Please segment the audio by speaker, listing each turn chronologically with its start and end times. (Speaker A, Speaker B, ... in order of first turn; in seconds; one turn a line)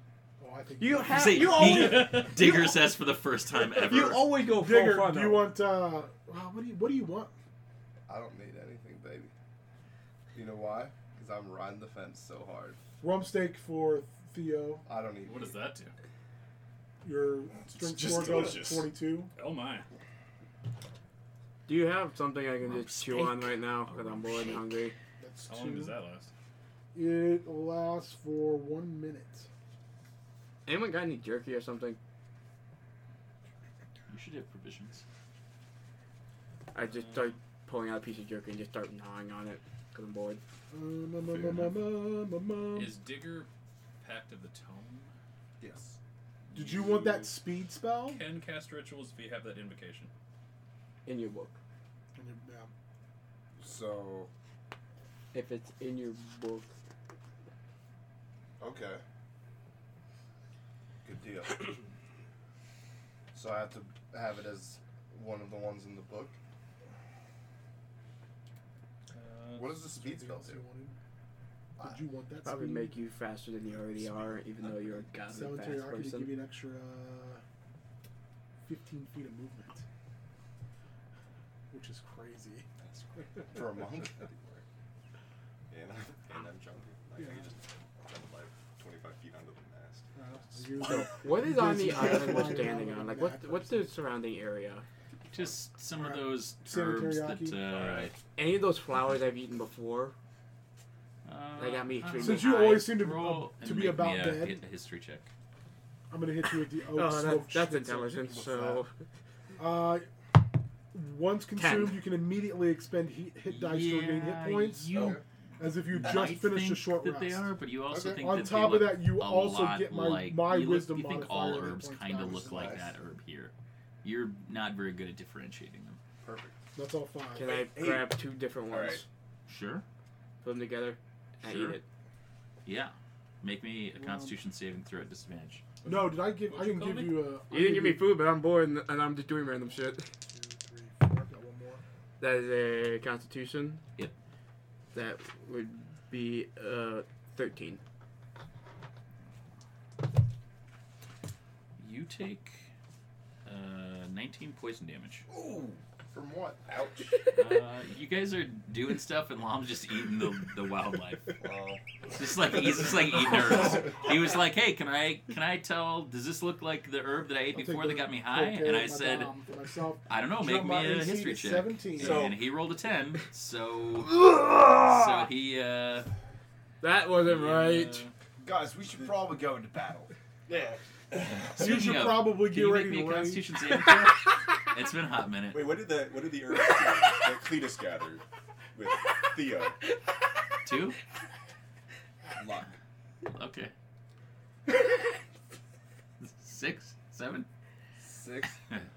Speaker A: 0.4-2.3
Speaker B: 0.8-2.8
Speaker C: 1.1-4.3
Speaker B: 3.6-5.5
Speaker A: 4.0-7.3
Speaker D: 8.1-9.3
Speaker D: 10.3-12.8
Speaker A: 13.0-14.8
Speaker D: 14.9-15.5
Speaker E: 15.2-15.9
Speaker A: 17.0-19.3
Speaker F: 17.7-18.9
Speaker E: 19.3-19.9
Speaker B: 21.7-24.9
Speaker C: 22.6-24.7
Speaker A: 25.2-26.0
Speaker E: 25.5-26.3
Speaker A: 26.9-29.5
Speaker B: 30.6-32.0
Speaker C: 34.1-35.0
Speaker B: 36.7-40.4
Speaker E: 36.8-37.4
Speaker A: 40.7-43.0
Speaker E: 42.7-43.5
Speaker E: 44.0-45.1
Speaker D: 45.6-46.0
Speaker E: 46.5-47.3
Speaker A: 46.5-48.3
Speaker E: 48.0-50.1
Speaker B: 51.0-51.5
Speaker A: 52.1-52.7
Speaker D: 53.6-54.3
Speaker B: 55.3-56.8
Speaker D: 58.6-59.0
Speaker D: 61.0-61.8
Speaker D: 63.3-66.4
Speaker E: 69.1-69.8
Speaker D: 69.5-70.6
Speaker A: 69.9-71.0
Speaker A: 71.8-73.0
Speaker B: 72.4-76.3
Speaker A: 75.3-77.4
Speaker A: 78.7-79.8
Speaker A: 81.7-82.7
Speaker F: 82.8-84.6
Speaker D: 83.5-84.3
Speaker F: 85.7-90.1
Speaker A: 90.2-93.8
Speaker B: 90.8-94.8
Speaker C: 95.3-98.1
Speaker A: 95.9-97.7
Speaker B: 98.3-100.2
Speaker C: 101.2-105.3
Speaker B: 101.6-102.8
Speaker A: 102.2-104.6
Speaker A: 106.1-108.2
Speaker B: 106.9-108.9
Speaker D: 108.3-108.8
Speaker A: 109.6-110.1
Speaker A: 110.9-117.5
Speaker B: 111.5-112.0
Speaker C: 113.5-126.0
Speaker D: 114.9-115.2
Speaker D: 117.9-118.2
Speaker A: 118.1-122.7
Speaker D: 122.3-122.9
Speaker D: 126.2-126.5
Speaker A: 126.8-127.6
Speaker B: 127.3-129.0
Speaker D: 127.8-128.0
Speaker F: 128.7-129.0
Speaker C: 129.5-129.8
Speaker B: 130.4-131.8
Speaker C: 131.4-131.8
Speaker C: 132.7-135.7
Speaker A: 133.9-134.3
Speaker E: 135.8-137.3
Speaker A: 135.8-138.1
Speaker B: 137.5-140.1
Speaker A: 140.3-141.8
Speaker B: 142.2-143.8
Speaker B: 144.9-147.8
Speaker C: 151.8-152.7
Speaker C: 153.4-155.3
Speaker D: 155.3-157.1
Speaker C: 157.3-161.4
Speaker F: 161.4-161.8
Speaker C: 162.1-169.3
Speaker A: 167.5-172.3
Speaker C: 170.1-174.2
Speaker F: 172.0-172.3
Speaker C: 174.8-176.1
Speaker B: 176.8-178.1
Speaker E: 177.2-178.1
Speaker D: 178.4-180.1
Speaker C: 181.2-185.8
Speaker A: 181.6-183.4
Speaker F: 185.5-188.2
Speaker F: 188.8-189.8
Speaker C: 190.6-191.0
Speaker D: 192.4-192.7
Speaker C: 193.2-193.7
Speaker C: 196.2-197.5
Speaker D: 198.0-198.6